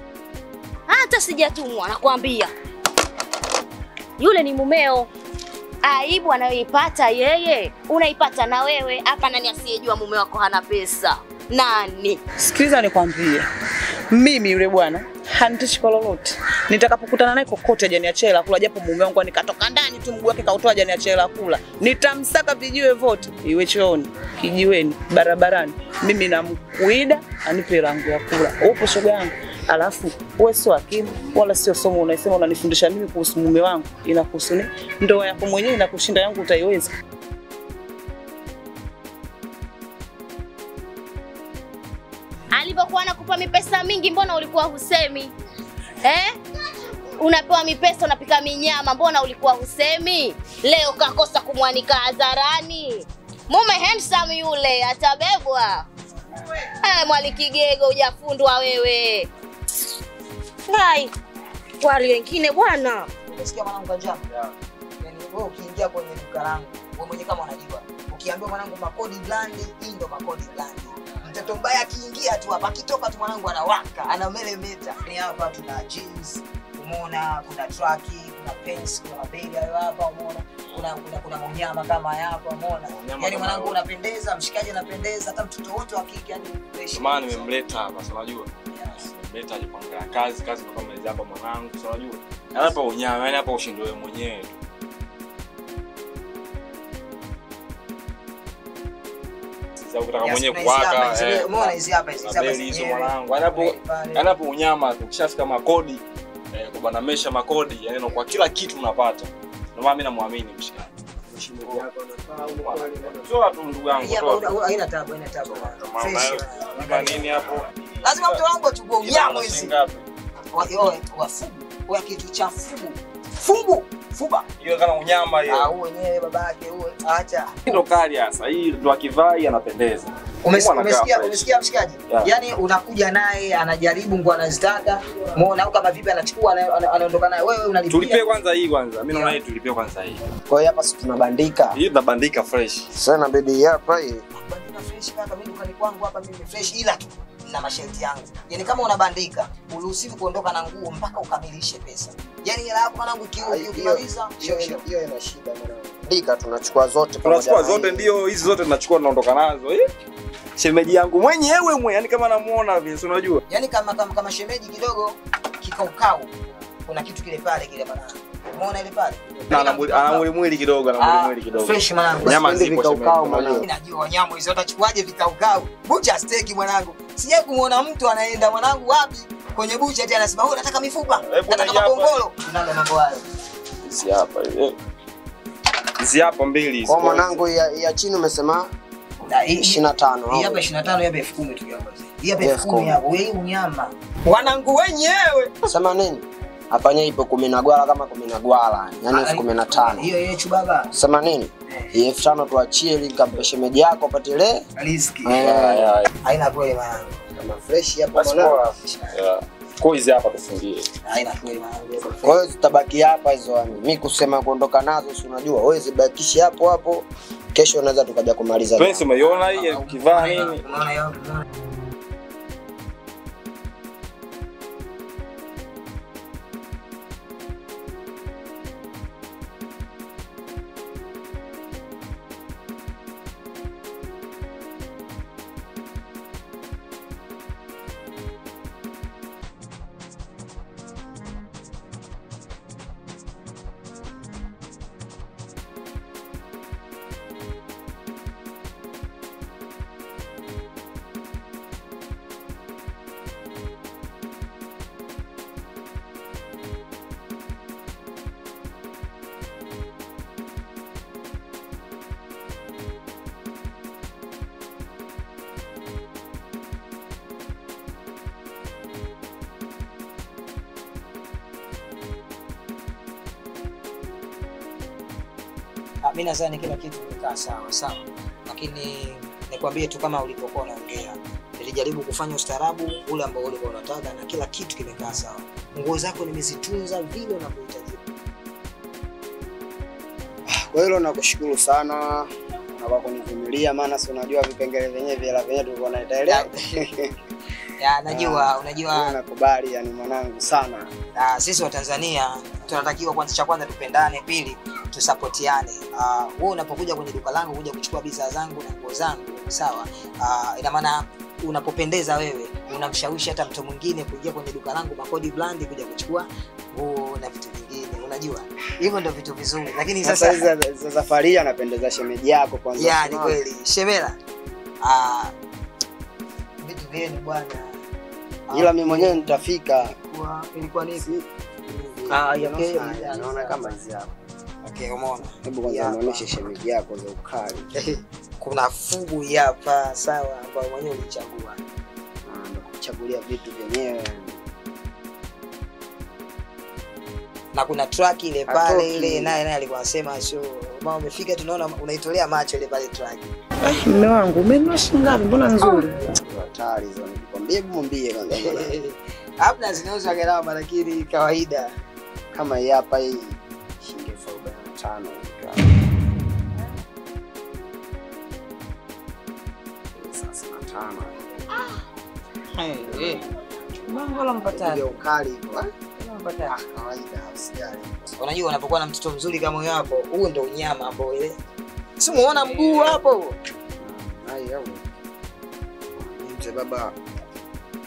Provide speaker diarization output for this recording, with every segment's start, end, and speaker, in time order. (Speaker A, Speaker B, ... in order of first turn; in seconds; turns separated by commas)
Speaker A: 0.9-2.5, Speaker A: 4.2-5.1, Speaker A: 5.8-12.2, Speaker B: 12.4-13.5, Speaker B: 14.1-36.9, Speaker A: 42.5-45.3, Speaker A: 46.0-46.4, Speaker A: 47.2-55.9, Speaker A: 56.8-59.3, Speaker A: 60.7-61.1, Speaker A: 61.8-63.1, Speaker C: 63.3-64.2, Speaker C: 65.0-87.5, Speaker D: 82.9-83.8, Speaker D: 86.9-94.5, Speaker D: 99.8-106.0, Speaker C: 100.2-104.3, Speaker D: 106.5-110.9, Speaker E: 111.3-113.3, Speaker D: 112.4-114.5, Speaker C: 113.9-117.2, Speaker D: 115.5-117.6, Speaker C: 118.0-119.7, Speaker D: 119.0-120.0, Speaker C: 120.5-124.4, Speaker D: 124.6-125.7, Speaker C: 125.5-127.5, Speaker D: 127.7-131.5, Speaker C: 130.4-138.2, Speaker D: 137.9-140.2, Speaker E: 140.5-141.8, Speaker D: 141.7-142.9, Speaker E: 142.9-144.2, Speaker C: 144.3-154.8, Speaker E: 153.4-158.1, Speaker D: 157.2-159.9, Speaker D: 160.6-163.4, Speaker C: 163.5-166.3, Speaker C: 166.9-170.2, Speaker D: 169.5-173.6, Speaker C: 171.0-172.4, Speaker E: 172.2-173.7, Speaker C: 173.6-183.2, Speaker D: 181.3-182.2, Speaker D: 183.8-184.7, Speaker D: 186.0-187.4, Speaker E: 186.8-188.7, Speaker C: 189.3-195.5, Speaker E: 189.6-190.6, Speaker E: 192.4-193.0, Speaker E: 195.7-200.1, Speaker C: 199.1-201.1, Speaker E: 200.9-204.6, Speaker C: 204.8-205.4, Speaker E: 205.2-205.9, Speaker D: 205.4-206.1, Speaker C: 206.2-207.0, Speaker E: 207.4-208.6, Speaker D: 208.1-210.8, Speaker C: 211.1-212.4, Speaker E: 212.2-219.1, Speaker D: 218.8-220.6, Speaker C: 219.3-221.4, Speaker C: 276.0-288.0, Speaker E: 290.5-297.1, Speaker C: 296.3-296.5, Speaker C: 297.8-299.1, Speaker E: 298.1-300.9, Speaker C: 301.1-320.5, Speaker E: 320.0-323.4, Speaker C: 322.8-324.2, Speaker C: 324.8-325.3, Speaker C: 326.6-327.8, Speaker C: 328.5-331.2, Speaker E: 328.5-329.9, Speaker E: 331.0-334.1, Speaker C: 332.1-333.8, Speaker C: 334.6-336.3, Speaker E: 335.4-337.7, Speaker C: 338.4-341.6, Speaker E: 342.2-344.4, Speaker C: 347.5-353.3, Speaker E: 348.5-349.4, Speaker B: 353.6-355.9, Speaker E: 356.1-358.7, Speaker C: 358.4-361.7, Speaker E: 362.3-365.8, Speaker E: 369.9-371.1, Speaker B: 372.5-373.2, Speaker E: 372.8-373.2, Speaker B: 373.9-375.0, Speaker E: 374.5-375.7, Speaker B: 376.0-376.5, Speaker E: 376.4-378.1, Speaker C: 378.2-381.4, Speaker C: 382.0-383.4, Speaker B: 382.4-382.9, Speaker E: 383.8-385.0, Speaker E: 385.9-386.9